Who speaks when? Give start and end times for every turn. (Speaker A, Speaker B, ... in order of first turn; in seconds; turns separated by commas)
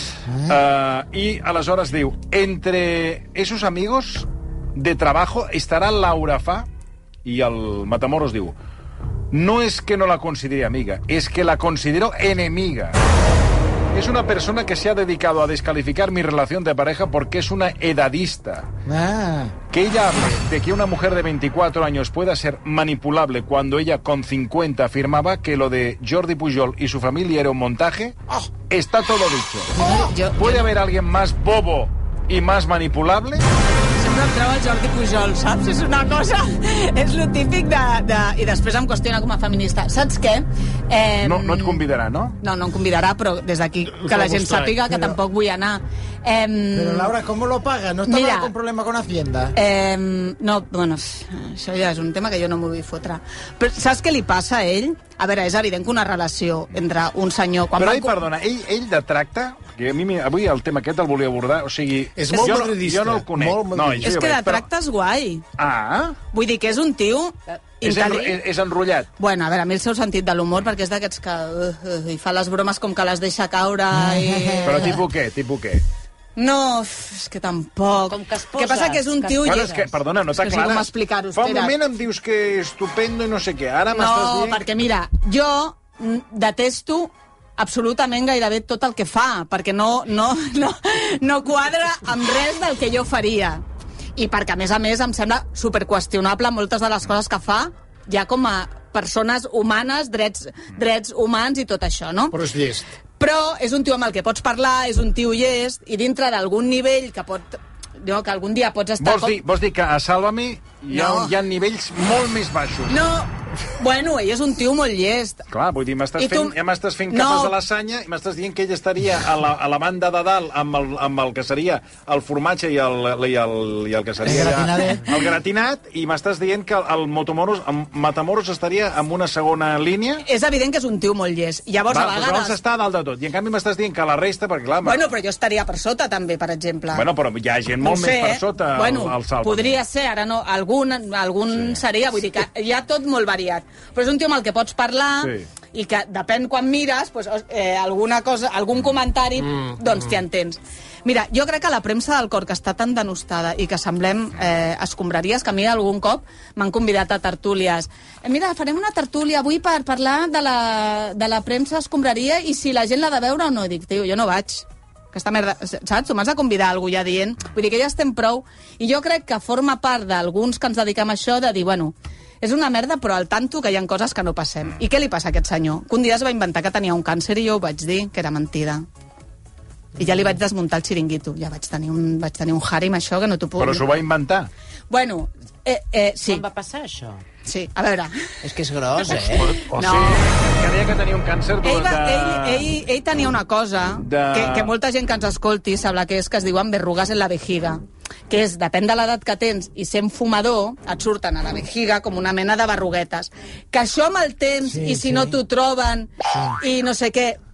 Speaker A: 0.3-0.6, Speaker B: 0.5-6.7, Speaker B: 7.2-8.5, Speaker B: 9.3-13.0, Speaker B: 13.9-18.7, Speaker A: 18.9-19.6, Speaker B: 19.7-28.2, Speaker B: 28.7-29.8, Speaker A: 29.7-30.1, Speaker C: 29.8-30.7, Speaker B: 30.4-33.4, Speaker C: 34.0-41.8, Speaker B: 41.2-42.4, Speaker C: 42.4-47.1, Speaker D: 43.8-45.0, Speaker A: 46.7-49.5, Speaker C: 48.1-48.5, Speaker C: 49.5-58.2, Speaker B: 57.8-64.6, Speaker D: 62.1-64.1, Speaker C: 64.0-65.4, Speaker B: 65.6-66.2, Speaker C: 66.3-68.4, Speaker B: 67.8-69.1, Speaker C: 69.2-75.0, Speaker A: 73.9-75.0, Speaker B: 74.6-75.8, Speaker C: 76.3-79.8, Speaker E: 78.1-79.8, Speaker B: 79.4-84.6, Speaker C: 80.4-81.7, Speaker C: 83.9-93.6, Speaker C: 94.2-102.4, Speaker D: 102.3-102.8, Speaker C: 103.2-109.4, Speaker B: 109.0-113.0, Speaker C: 110.9-111.3, Speaker C: 112.9-115.4, Speaker B: 115.5-130.2, Speaker C: 116.2-116.5, Speaker C: 117.1-117.5, Speaker A: 124.2-125.0, Speaker C: 130.2-132.6, Speaker B: 131.9-135.1, Speaker C: 134.8-137.1, Speaker B: 136.9-139.8, Speaker C: 137.8-178.8, Speaker B: 141.5-141.8, Speaker B: 145.2-145.5, Speaker C: 179.9-183.9, Speaker B: 183.6-184.5, Speaker C: 184.9-186.4, Speaker E: 186.3-187.2, Speaker C: 187.4-188.1, Speaker E: 188.4-189.5, Speaker D: 189.1-190.2, Speaker C: 189.8-190.2, Speaker B: 189.8-192.7, Speaker C: 191.6-207.4, Speaker B: 194.0-194.7, Speaker A: 204.6-205.4, Speaker A: 206.3-206.6